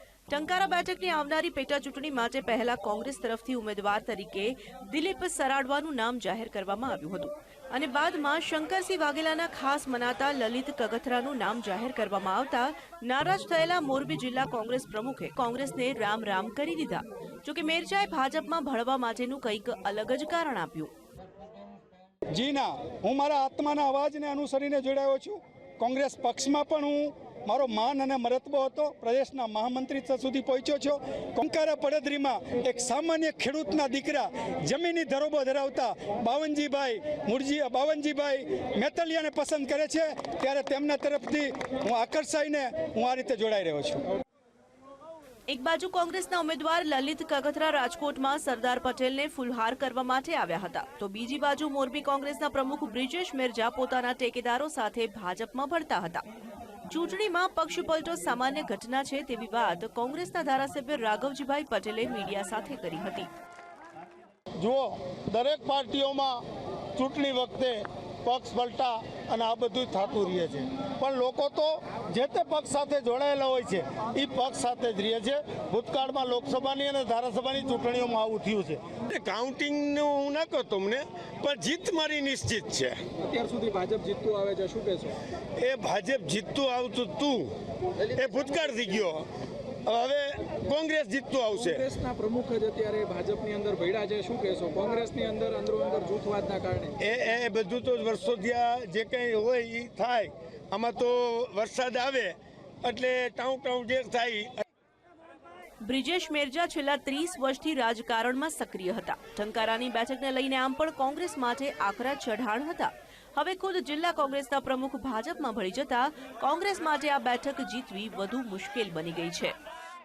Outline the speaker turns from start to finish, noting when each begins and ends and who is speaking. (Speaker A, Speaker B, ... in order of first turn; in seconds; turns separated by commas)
Speaker A: 0.3-20.9, Speaker B: 22.3-44.0, Speaker A: 45.5-56.2, Speaker A: 56.9-63.3, Speaker C: 64.6-66.4, Speaker C: 67.0-78.9, Speaker D: 79.0-83.0, Speaker E: 83.2-85.2, Speaker D: 85.6-87.5, Speaker D: 88.0-89.3, Speaker D: 89.9-91.6, Speaker E: 91.5-97.0, Speaker D: 97.0-104.6, Speaker A: 105.8-119.5